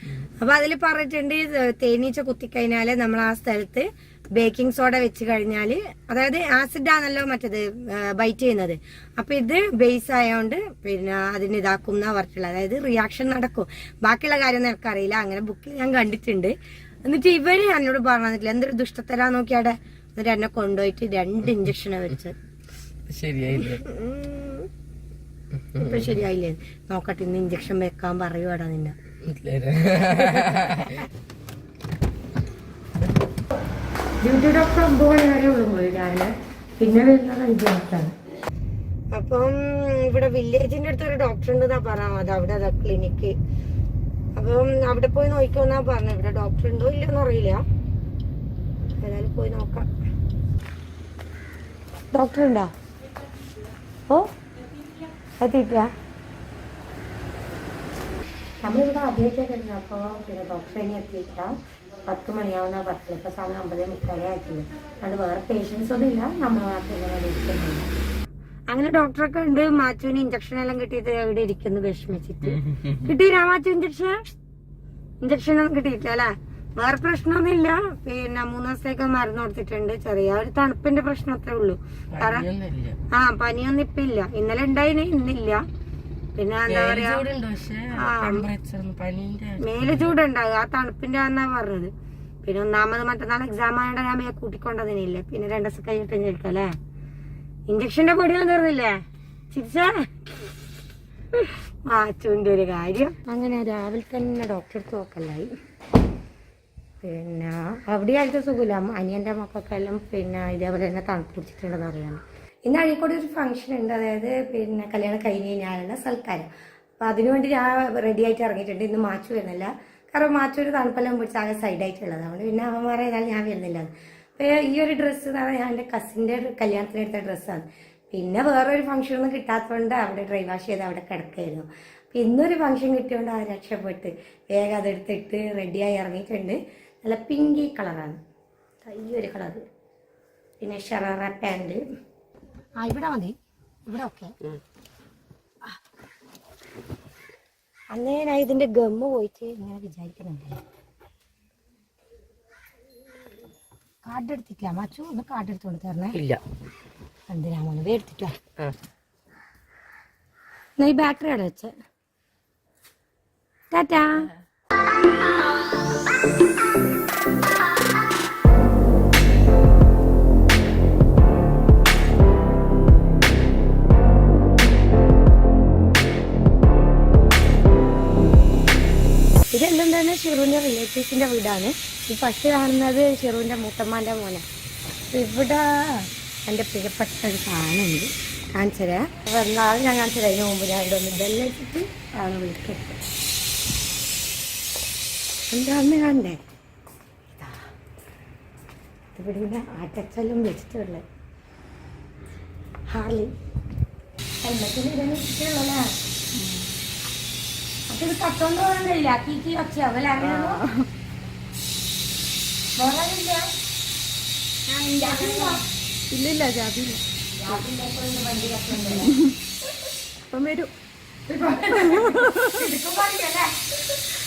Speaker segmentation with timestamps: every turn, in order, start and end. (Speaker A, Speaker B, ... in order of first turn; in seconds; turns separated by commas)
Speaker A: 0.4-22.4, Speaker B: 23.1-23.8, Speaker A: 23.6-24.7, Speaker B: 25.5-26.2, Speaker A: 25.8-28.9, Speaker B: 29.2-31.1, Speaker A: 34.2-38.1, Speaker A: 39.1-43.3, Speaker A: 44.4-47.6, Speaker A: 49.0-49.9, Speaker A: 52.1-52.7, Speaker A: 55.4-55.9, Speaker A: 58.6-61.5, Speaker A: 62.0-67.9, Speaker A: 68.7-74.2, Speaker A: 75.2-82.5, Speaker B: 82.1-83.0, Speaker A: 83.1-85.6, Speaker A: 86.3-87.2, Speaker B: 86.7-90.1, Speaker A: 87.9-88.5, Speaker A: 89.6-91.9, Speaker A: 92.4-96.7, Speaker A: 97.7-100.2, Speaker A: 101.3-105.5, Speaker A: 107.0-116.5, Speaker A: 117.0-138.2, Speaker A: 138.8-139.6, Speaker A: 140.6-141.8, Speaker A: 142.8-143.3, Speaker A: 143.9-144.3, Speaker A: 147.9-150.6, Speaker A: 154.0-156.2, Speaker B: 156.1-156.4, Speaker A: 157.3-158.3, Speaker A: 160.8-161.7, Speaker A: 163.7-164.3, Speaker A: 179.5-184.4, Speaker A: 185.1-193.0, Speaker A: 195.5-196.4, Speaker A: 197.3-197.6, Speaker A: 199.1-201.0, Speaker A: 202.9-203.3, Speaker A: 204.4-205.9, Speaker C: 206.3-206.7, Speaker A: 207.9-210.6, Speaker C: 210.2-210.9, Speaker A: 212.8-213.5, Speaker C: 214.7-217.0, Speaker A: 214.9-215.6, Speaker A: 217.3-219.1, Speaker C: 218.9-219.3, Speaker C: 220.3-220.7, Speaker A: 221.3-223.5, Speaker C: 221.7-222.5